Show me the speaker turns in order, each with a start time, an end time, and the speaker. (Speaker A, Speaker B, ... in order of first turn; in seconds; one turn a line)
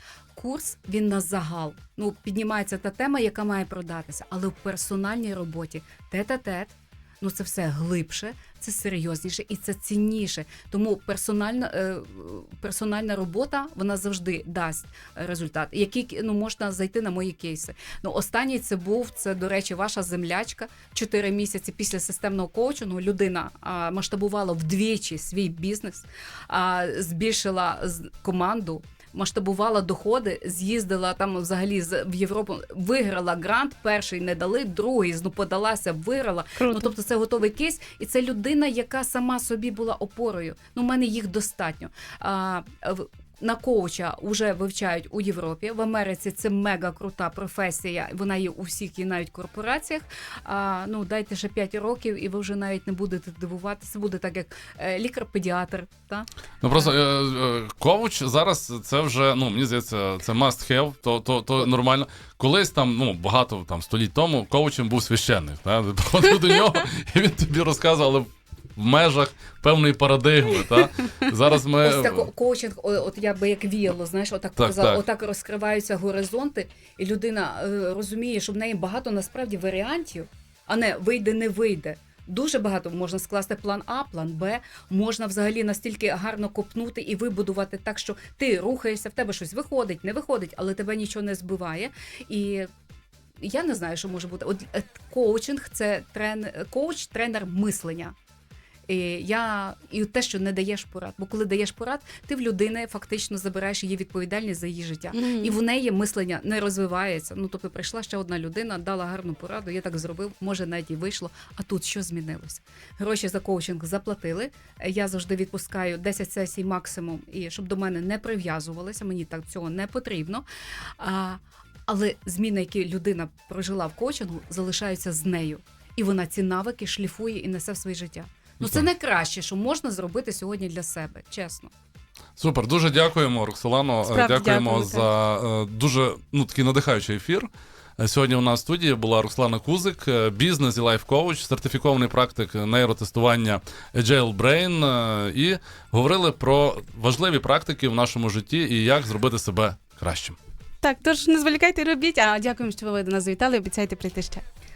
Speaker A: 0.3-56.9
Speaker B: 36.6-36.9
Speaker C: 56.6-72.3
Speaker A: 71.8-92.7
Speaker C: 74.6-75.0
Speaker A: 93.4-98.1
Speaker A: 98.9-120.4
Speaker B: 105.1-105.5
Speaker A: 121.0-131.7
Speaker C: 128.6-128.8
Speaker C: 132.4-150.4
Speaker B: 134.1-135.1
Speaker B: 150.8-154.4